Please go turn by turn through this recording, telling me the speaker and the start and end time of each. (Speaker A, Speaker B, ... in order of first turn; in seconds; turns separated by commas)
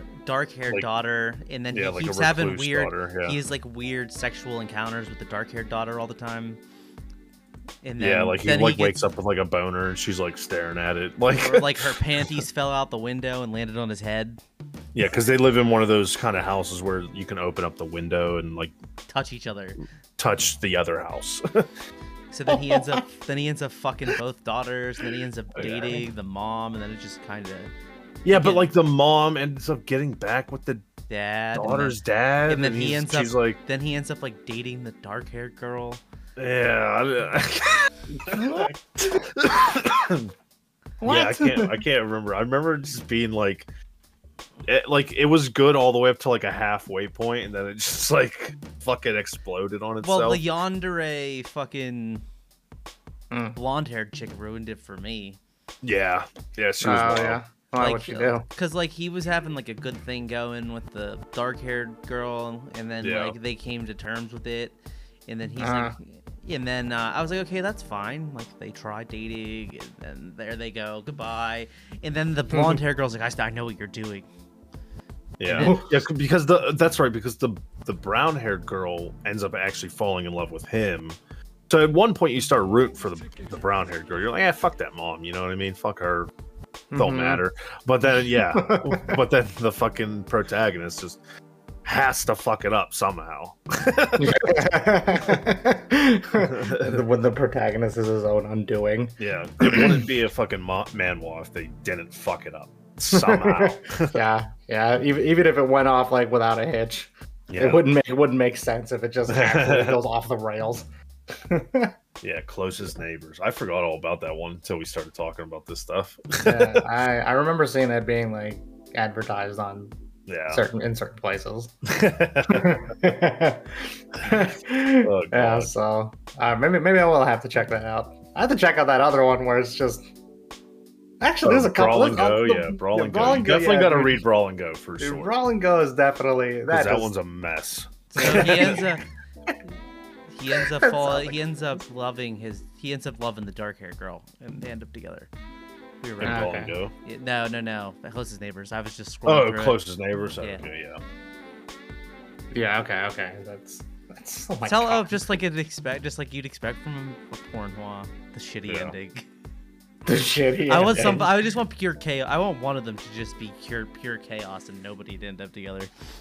Speaker A: 0.2-6.6, Speaker B: 1.7-3.4, Speaker A: 7.8-9.0, Speaker B: 8.0-12.3, Speaker A: 11.3-14.4, Speaker B: 14.9-18.7, Speaker A: 19.1-19.8, Speaker B: 20.2-21.7, Speaker A: 22.3-27.7, Speaker C: 22.5-23.0, Speaker B: 25.6-26.0, Speaker B: 28.2-30.9, Speaker A: 28.3-28.7, Speaker A: 31.1-32.0, Speaker B: 31.6-33.6, Speaker A: 32.5-36.0, Speaker B: 36.4-40.3, Speaker C: 38.3-39.2, Speaker C: 41.0-41.8, Speaker B: 41.0-43.7, Speaker B: 44.7-50.4, Speaker A: 50.0-52.2, Speaker C: 53.3-53.6, Speaker A: 53.6-55.4, Speaker B: 55.8-57.4, Speaker C: 56.8-58.5, Speaker A: 57.8-74.3, Speaker B: 63.0-63.4, Speaker C: 65.6-66.0, Speaker C: 72.5-72.8, Speaker B: 75.4-81.2, Speaker A: 75.5-75.8, Speaker C: 75.5-75.9, Speaker B: 81.7-86.3, Speaker C: 86.9-87.4, Speaker B: 87.0-91.2, Speaker C: 88.5-89.2, Speaker B: 91.8-94.4, Speaker C: 94.2-100.0, Speaker B: 96.4-97.0, Speaker B: 99.2-104.2, Speaker C: 103.1-112.0, Speaker B: 107.5-107.8, Speaker B: 109.3-110.0, Speaker B: 112.2-116.8, Speaker C: 116.4-119.9, Speaker B: 120.3-120.7, Speaker C: 120.5-121.7, Speaker B: 121.9-122.8, Speaker C: 122.5-130.1, Speaker B: 125.0-125.7, Speaker C: 131.2-134.2, Speaker B: 131.4-135.3, Speaker C: 135.0-137.1, Speaker B: 136.7-138.8, Speaker C: 138.2-138.8, Speaker A: 138.2-139.0, Speaker A: 140.3-145.3, Speaker C: 140.6-141.4, Speaker A: 146.0-146.5, Speaker B: 146.2-146.9, Speaker C: 146.2-146.7, Speaker A: 147.0-149.8, Speaker B: 149.3-151.0, Speaker A: 150.4-150.7, Speaker C: 152.5-155.2, Speaker A: 154.6-159.3, Speaker B: 158.7-158.9, Speaker C: 160.1-161.3, Speaker A: 160.7-165.9